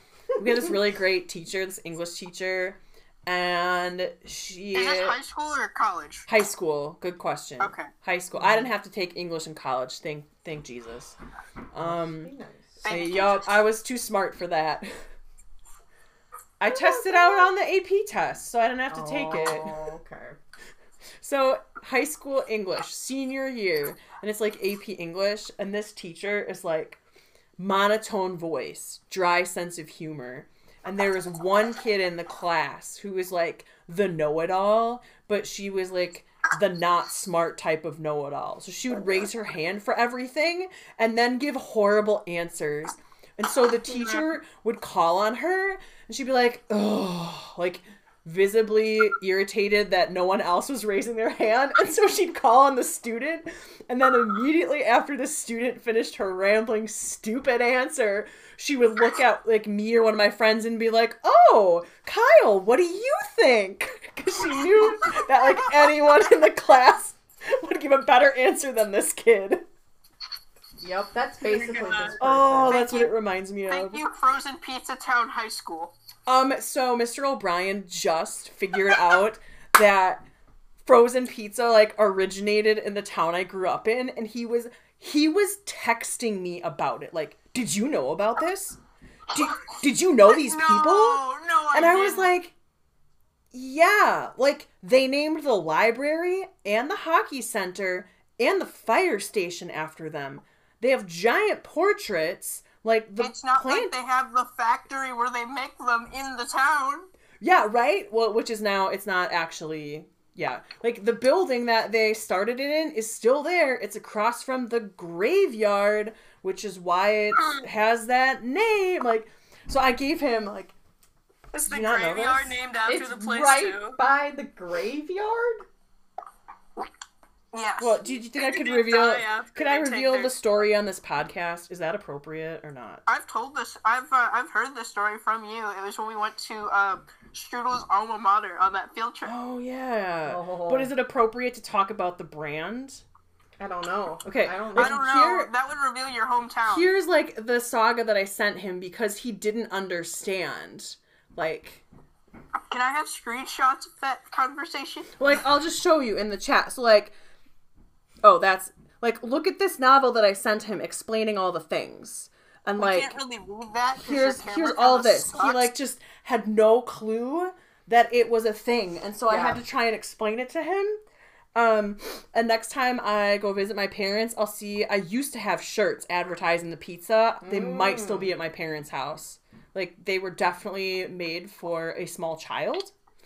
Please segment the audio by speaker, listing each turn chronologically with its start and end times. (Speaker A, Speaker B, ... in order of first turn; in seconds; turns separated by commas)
Speaker A: 0.4-5.2, Speaker B: 4.7-6.3, Speaker A: 6.3-11.2, Speaker B: 7.6-7.9, Speaker C: 8.3-8.7, Speaker A: 11.7-12.3, Speaker C: 11.8-12.9, Speaker B: 12.8-13.5, Speaker A: 12.8-14.9, Speaker A: 16.6-19.9, Speaker C: 16.6-17.5, Speaker C: 18.9-20.4, Speaker A: 21.2-27.0, Speaker A: 27.6-69.6, Speaker C: 70.8-72.8, Speaker D: 71.4-72.2, Speaker A: 72.2-74.0, Speaker B: 72.7-73.1, Speaker B: 73.7-75.9, Speaker A: 76.3-80.2, Speaker A: 80.8-88.8, Speaker A: 89.3-92.5, Speaker B: 90.3-92.3, Speaker A: 93.5-103.9, Speaker B: 103.2-107.1, Speaker A: 107.4-120.7, Speaker D: 121.5-124.0, Speaker A: 121.7-122.6, Speaker C: 122.8-125.7, Speaker B: 127.5-128.0, Speaker A: 127.8-133.0, Speaker D: 128.5-130.3, Speaker B: 133.1-139.3, Speaker A: 139.2-143.0, Speaker C: 140.2-140.9, Speaker C: 143.6-145.0, Speaker A: 144.2-145.5, Speaker B: 144.7-146.9, Speaker A: 146.6-151.8, Speaker B: 152.7-155.2, Speaker A: 155.2-157.1, Speaker A: 158.2-163.2, Speaker B: 162.8-165.7, Speaker A: 164.0-171.0, Speaker C: 169.3-169.6, Speaker A: 171.5-182.9, Speaker C: 177.4-178.3